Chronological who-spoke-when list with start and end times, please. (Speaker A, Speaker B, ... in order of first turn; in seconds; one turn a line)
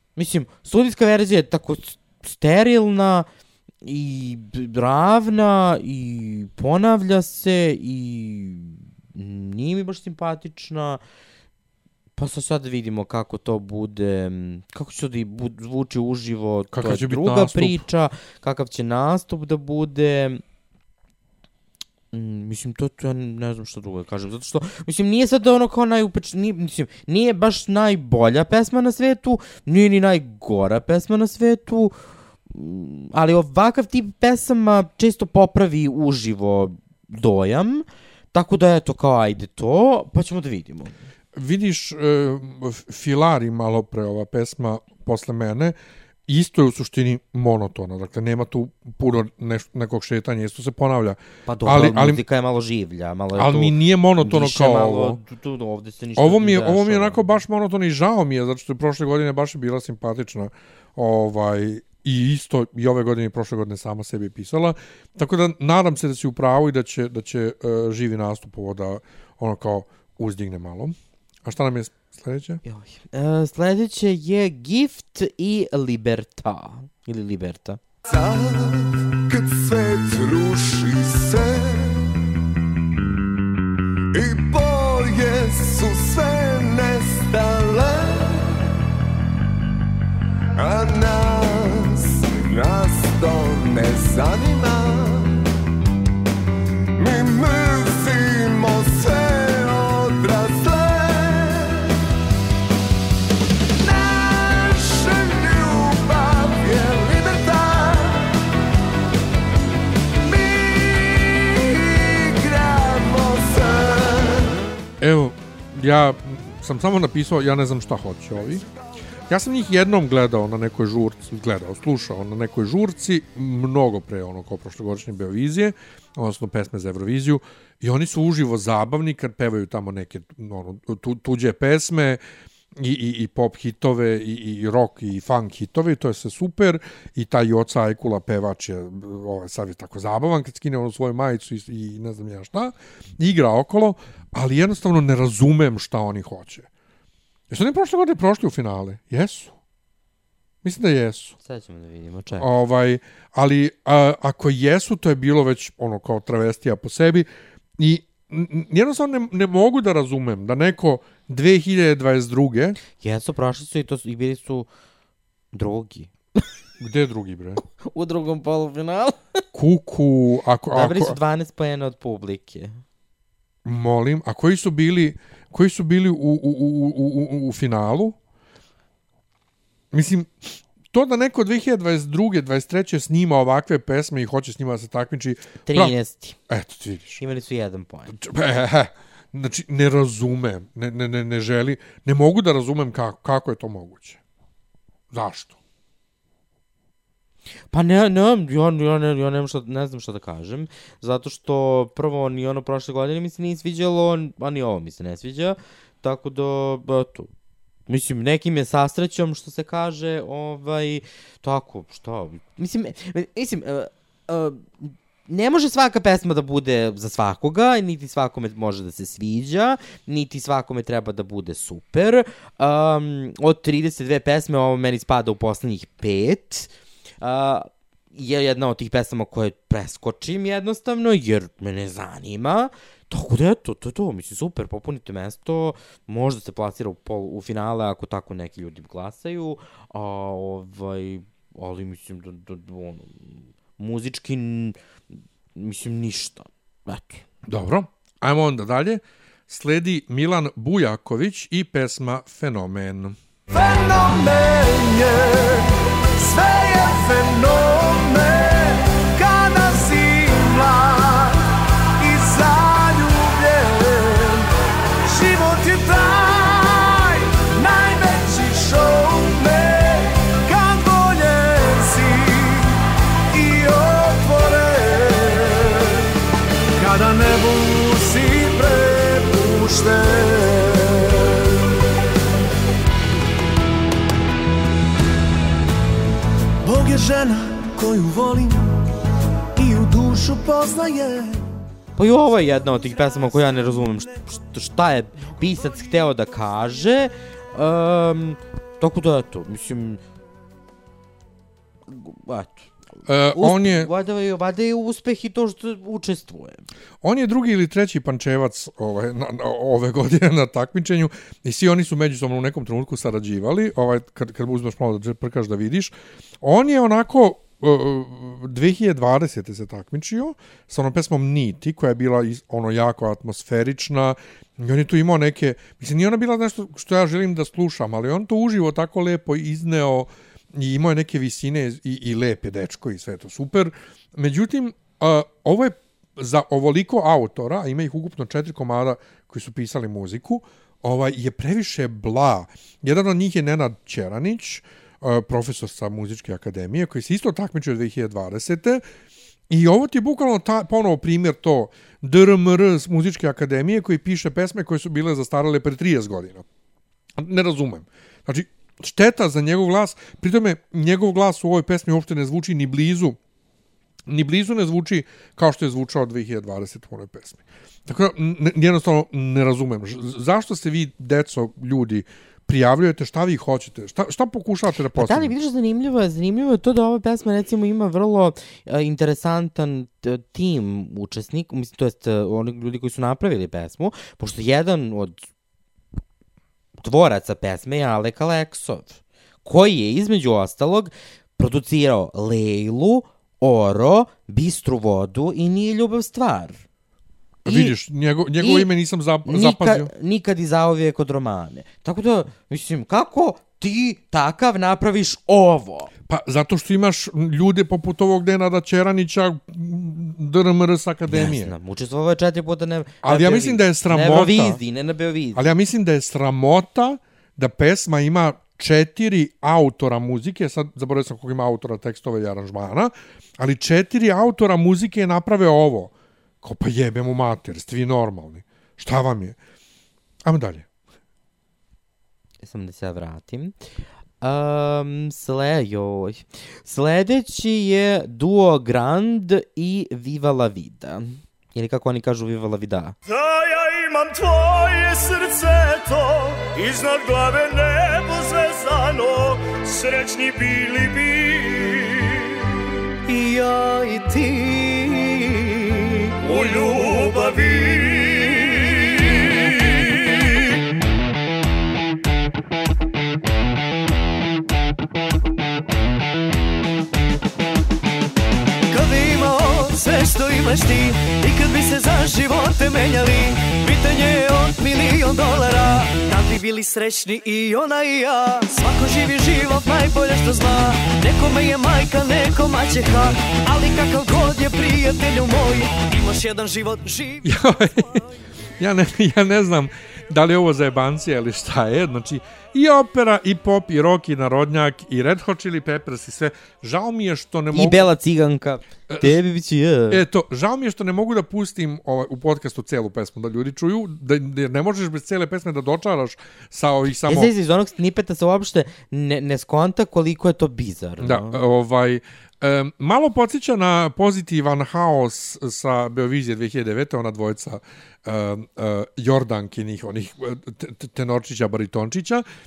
Speaker A: 0.2-3.3
Speaker A: 3.8-11.0
Speaker A: 12.2-20.4
Speaker B: 16.7-17.9
Speaker A: 22.1-31.9
Speaker A: 32.5-40.9
Speaker B: 41.4-45.8
Speaker B: 46.3-52.2
Speaker A: 51.5-57.2
Speaker B: 53.4-55.2
Speaker B: 56.2-72.6
Speaker A: 72.7-77.8
Speaker C: 78.1-82.0
Speaker C: 84.1-88.6
Speaker C: 90.6-95.5
Speaker C: 97.0-101.9
Speaker C: 103.8-108.3
Speaker C: 110.2-114.5
Speaker B: 115.0-118.6
Speaker B: 119.3-132.2
Speaker B: 132.8-146.7
Speaker B: 147.5-149.6
Speaker B: 150.6-151.3
Speaker A: 151.4-152.5
Speaker B: 152.4-162.8
Speaker A: 163.0-164.7
Speaker A: 165.5-166.1
Speaker B: 166.8-167.6
Speaker A: 167.9-169.4
Speaker B: 169.5-171.2
Speaker A: 170.7-172.8
Speaker B: 173.7-178.2
Speaker B: 179.9-185.9
Speaker A: 185.7-186.4
Speaker B: 186.5-187.2
Speaker A: 187.2-188.2
Speaker B: 188.1-194.2
Speaker B: 195.1-195.6
Speaker A: 197.7-207.3
Speaker A: 207.9-244.8
Speaker A: 245.6-247.2
Speaker B: 247.5-253.2
Speaker C: 253.6-253.8
Speaker C: 254.4-255.2
Speaker C: 256.2-258.5
Speaker C: 269.0-269.8
Speaker C: 270.7-272.0
Speaker C: 273.4-275.2
Speaker A: 292.0-300.0
Speaker A: 301.9-302.7
Speaker B: 303.1-303.9
Speaker A: 303.3-306.6
Speaker B: 307.0-348.8
Speaker B: 349.5-356.4
Speaker B: 357.2-363.2
Speaker B: 364.1-375.3
Speaker A: 375.0-385.2
Speaker A: 386.8-396.6
Speaker B: 397.4-399.9
Speaker A: 397.5-397.7
Speaker A: 398.4-398.7
Speaker A: 399.2-405.9
Speaker B: 406.1-411.5
Speaker A: 411.1-415.5
Speaker B: 413.0-414.6
Speaker B: 415.4-429.4
Speaker B: 430.2-430.7
Speaker A: 432.4-433.5
Speaker A: 434.2-442.9
Speaker D: 454.5-455.2
Speaker D: 468.7-487.2
Speaker B: 487.2-488.0
Speaker B: 488.6-497.9
Speaker A: 497.5-500.0
Speaker B: 498.9-499.2
Speaker B: 499.9-507.3
Speaker A: 507.1-511.4
Speaker B: 511.0-522.2